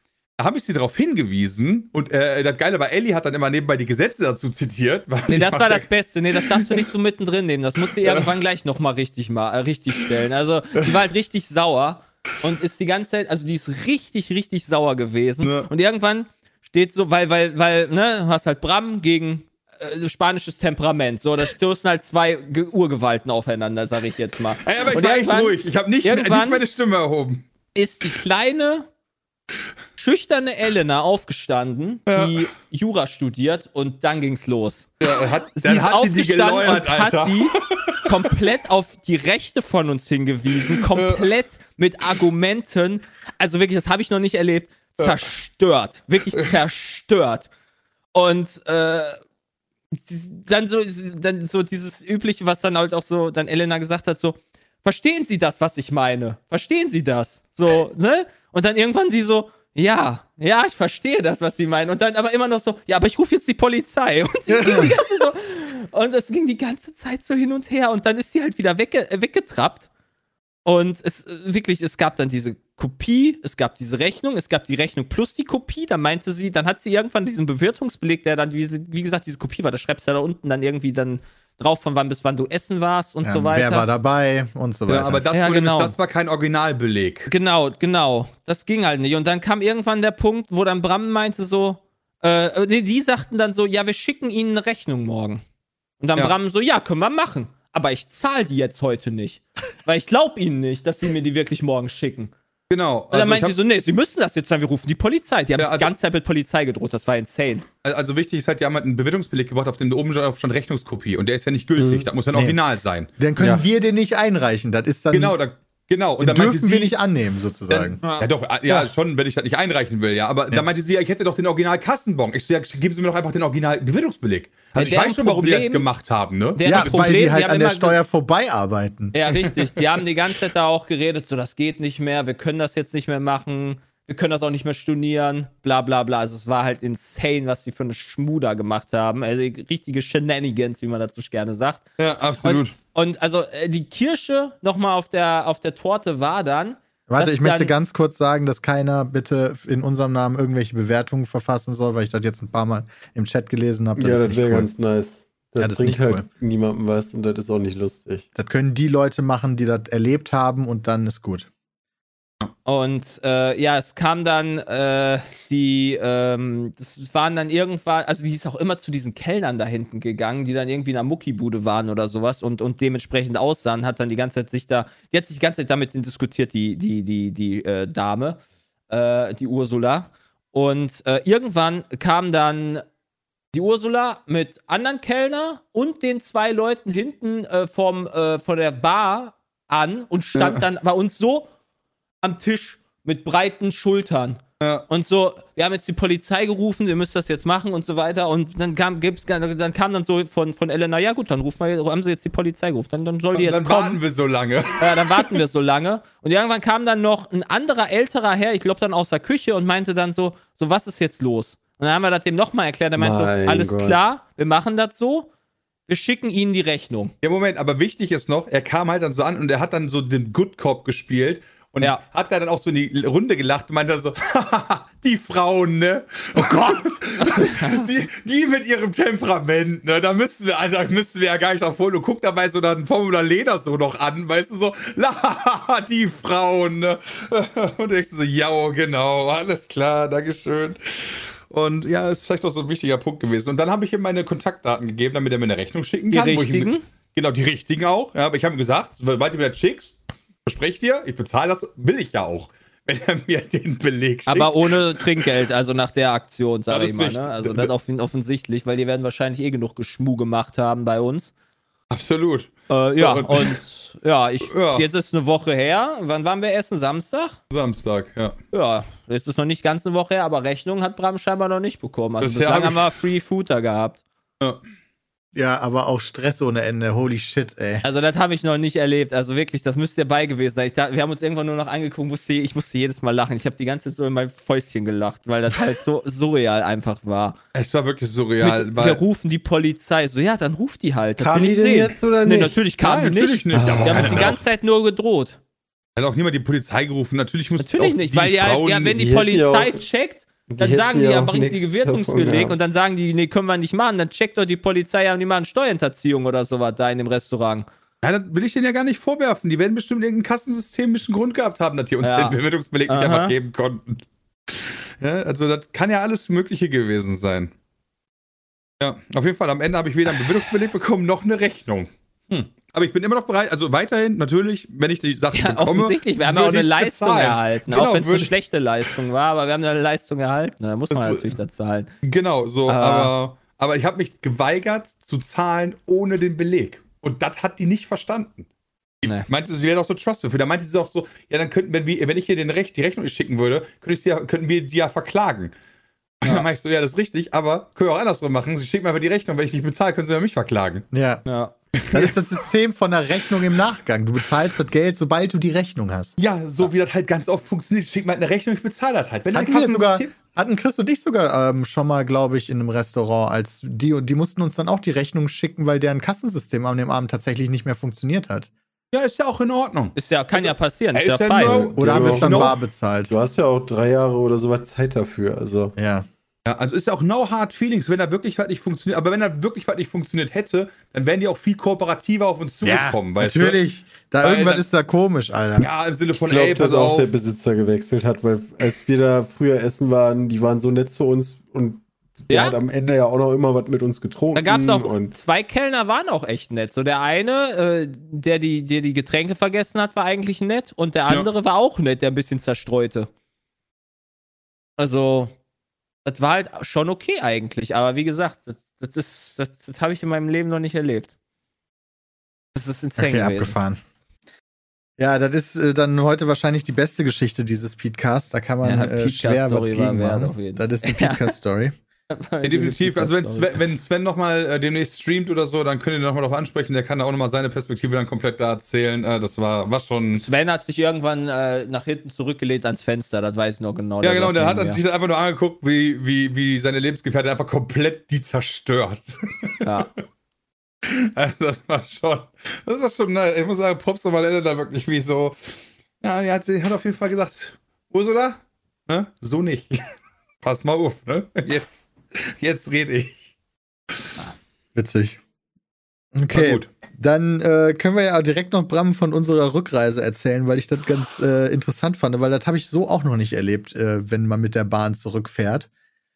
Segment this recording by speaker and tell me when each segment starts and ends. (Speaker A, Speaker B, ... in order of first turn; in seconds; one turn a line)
Speaker A: 0.4-6.9
Speaker B: 5.3-26.6
Speaker A: 7.9-8.3
Speaker A: 15.4-15.7
Speaker A: 24.6-27.4
Speaker B: 27.7-28.9
Speaker B: 30.0-35.0
Speaker A: 32.1-32.4
Speaker A: 35.0-38.1
Speaker B: 35.5-47.5
Speaker A: 40.7-41.2
Speaker B: 48.1-49.2
Speaker B: 49.9-69.9
Speaker C: 64.6-64.9
Speaker B: 70.6-83.9
Speaker C: 83.2-85.2
Speaker A: 84.9-87.3
Speaker B: 85.3-85.9
Speaker B: 87.3-95.4
Speaker B: 96.0-102.3
Speaker A: 102.7-103.5
Speaker B: 103.1-107.6
Speaker A: 105.6-105.9
Speaker A: 107.8-113.1
Speaker D: 111.8-112.1
Speaker C: 113.2-115.4
Speaker D: 113.4-113.6
Speaker A: 115.1-117.0
Speaker C: 116.2-118.0
Speaker A: 117.7-127.0
Speaker B: 118.0-118.3
Speaker B: 124.8-125.9
Speaker B: 126.6-128.0
Speaker C: 126.6-129.2
Speaker B: 129.1-141.8
Speaker A: 142.0-142.7
Speaker B: 142.4-147.7
Speaker C: 147.1-154.7
Speaker D: 154.0-158.2
Speaker C: 155.6-156.2
Speaker C: 158.4-161.5
Speaker B: 162.7-178.4
Speaker B: 178.9-182.8
Speaker B: 183.5-191.5
Speaker A: 190.4-190.6
Speaker B: 192.2-204.0
Speaker A: 194.6-194.9
Speaker A: 203.3-205.3
Speaker B: 204.8-215.3
Speaker D: 213.0-214.0
Speaker B: 215.9-217.1
Speaker A: 217.2-255.2
Speaker C: 226.3-227.0
Speaker B: 227.2-227.9
Speaker B: 246.1-246.8
Speaker B: 254.3-261.3
Speaker A: 256.7-257.7
Speaker A: 261.9-263.6
Speaker B: 262.7-267.4
Speaker A: 264.5-264.9
Speaker A: 267.5-268.4
Speaker B: 268.5-274.0
Speaker A: 272.2-273.0
Speaker C: 275.3-277.9
Speaker B: 277.8-287.4
Speaker A: 287.5-289.0
Speaker B: 288.4-295.4
Speaker D: 291.2-292.6
Speaker A: 292.8-294.4
Speaker D: 293.5-294.4
Speaker A: 295.9-299.0
Speaker B: 297.6-307.6
Speaker D: 298.9-299.8
Speaker D: 300.5-302.6
Speaker A: 308.0-317.5
Speaker B: 312.0-313.4
Speaker A: 318.8-328.4
Speaker B: 325.3-331.9
Speaker A: 330.9-331.4
Speaker A: 332.0-338.5
Speaker B: 332.7-333.1
Speaker A: 339.0-345.5
Speaker A: 346.2-350.9
Speaker C: 350.9-351.2
Speaker B: 351.2-351.5
Speaker A: 351.8-352.3
Speaker C: 351.9-356.1
Speaker A: 356.2-360.1
Speaker C: 359.3-368.5
Speaker A: 368.9-372.5
Speaker B: 369.9-371.6
Speaker D: 371.4-372.6
Speaker C: 371.8-373.1
Speaker D: 373.1-375.7
Speaker C: 375.8-376.1
Speaker A: 376.4-383.6
Speaker C: 382.6-385.7
Speaker A: 384.2-384.6
Speaker A: 385.6-387.1
Speaker D: 386.3-395.1
Speaker B: 392.3-392.6
Speaker B: 394.3-403.1
Speaker B: 404.8-405.3
Speaker B: 406.0-411.1
Speaker B: 412.5-413.6
Speaker C: 413.0-413.8
Speaker C: 415.0-421.7
Speaker B: 418.6-421.3
Speaker B: 422.1-423.6
Speaker A: 422.4-430.2
Speaker B: 430.1-434.8
Speaker A: 434.0-439.6
Speaker B: 439.6-439.9
Speaker A: 440.9-449.8
Speaker A: 450.4-453.2
Speaker C: 454.8-455.2
Speaker C: 456.1-465.7
Speaker A: 456.3-456.7